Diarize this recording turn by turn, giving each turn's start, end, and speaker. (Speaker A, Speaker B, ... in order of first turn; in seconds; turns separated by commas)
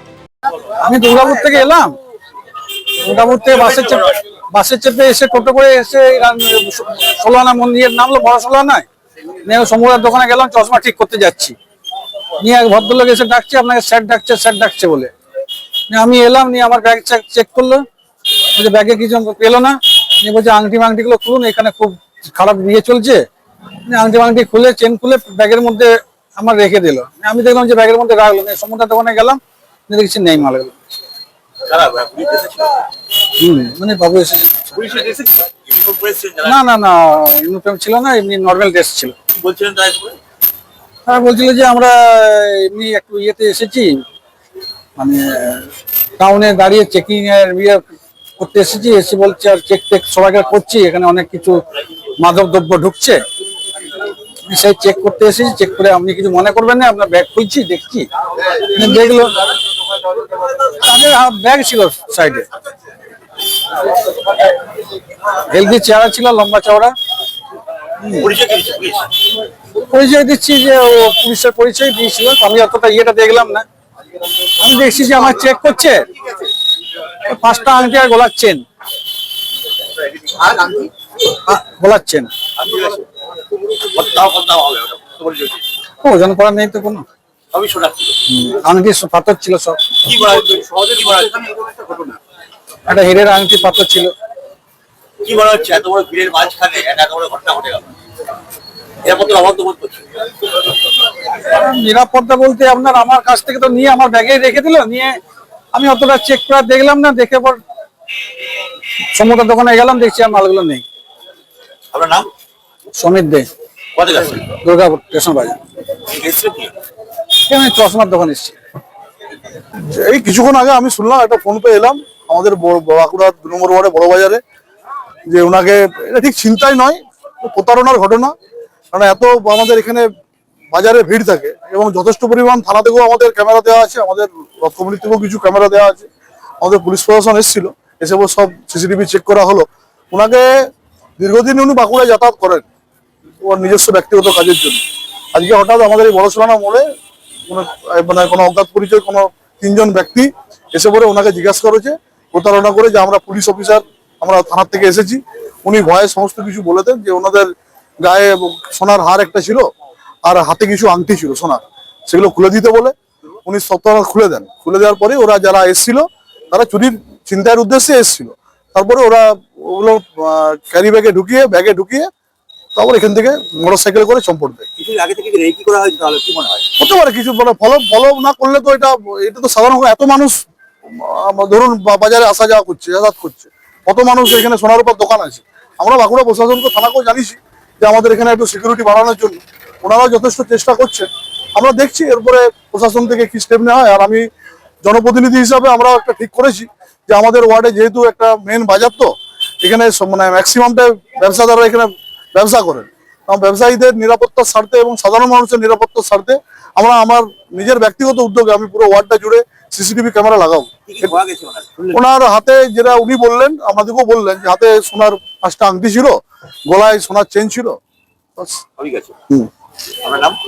Speaker A: 0.6-2.0, Speaker A: 3.0-8.8, Speaker A: 9.4-11.6, Speaker A: 12.4-15.1, Speaker A: 15.9-17.8, Speaker A: 18.5-23.2, Speaker A: 23.9-30.8, Speaker B: 31.6-32.8, Speaker A: 33.4-34.7, Speaker B: 34.7-36.6, Speaker A: 36.4-39.1, Speaker B: 39.3-40.2, Speaker A: 41.0-44.0, Speaker A: 45.0-47.8, Speaker A: 48.4-51.6, Speaker A: 52.2-53.2, Speaker A: 54.5-59.5, Speaker A: 60.7-62.5, Speaker A: 65.5-66.9, Speaker B: 68.1-69.1, Speaker A: 69.9-73.6, Speaker A: 74.6-76.1, Speaker A: 77.2-78.6, Speaker B: 80.4-80.8, Speaker A: 81.5-82.3, Speaker B: 82.6-83.0, Speaker B: 83.7-85.6, Speaker A: 86.0-87.0, Speaker B: 87.5-88.2, Speaker A: 88.3-89.8, Speaker B: 90.0-92.2, Speaker A: 92.9-94.1, Speaker B: 95.2-97.9, Speaker B: 99.0-100.0, Speaker A: 101.4-105.2, Speaker A: 105.7-107.6, Speaker A: 109.1-110.8, Speaker B: 111.9-112.3, Speaker A: 113.0-113.5, Speaker B: 114.0-114.5, Speaker A: 114.5-115.6, Speaker B: 116.1-116.7, Speaker A: 117.5-118.5, Speaker C: 119.8-124.4, Speaker C: 125.3-128.3, Speaker C: 128.9-130.1, Speaker C: 130.7-136.1, Speaker C: 136.6-140.5, Speaker C: 141.2-142.7, Speaker C: 143.4-144.8, Speaker C: 145.3-146.8, Speaker C: 147.5-159.7, Speaker C: 160.2-162.9, Speaker C: 163.4-172.1, Speaker C: 172.8-174.7, Speaker B: 174.8-176.7, Speaker C: 176.8-194.2, Speaker C: 194.8-211.1, Speaker B: 210.9-212.0, Speaker C: 211.9-217.8, Speaker C: 218.4-218.6, Speaker B: 218.8-219.2, Speaker B: 220.0-220.4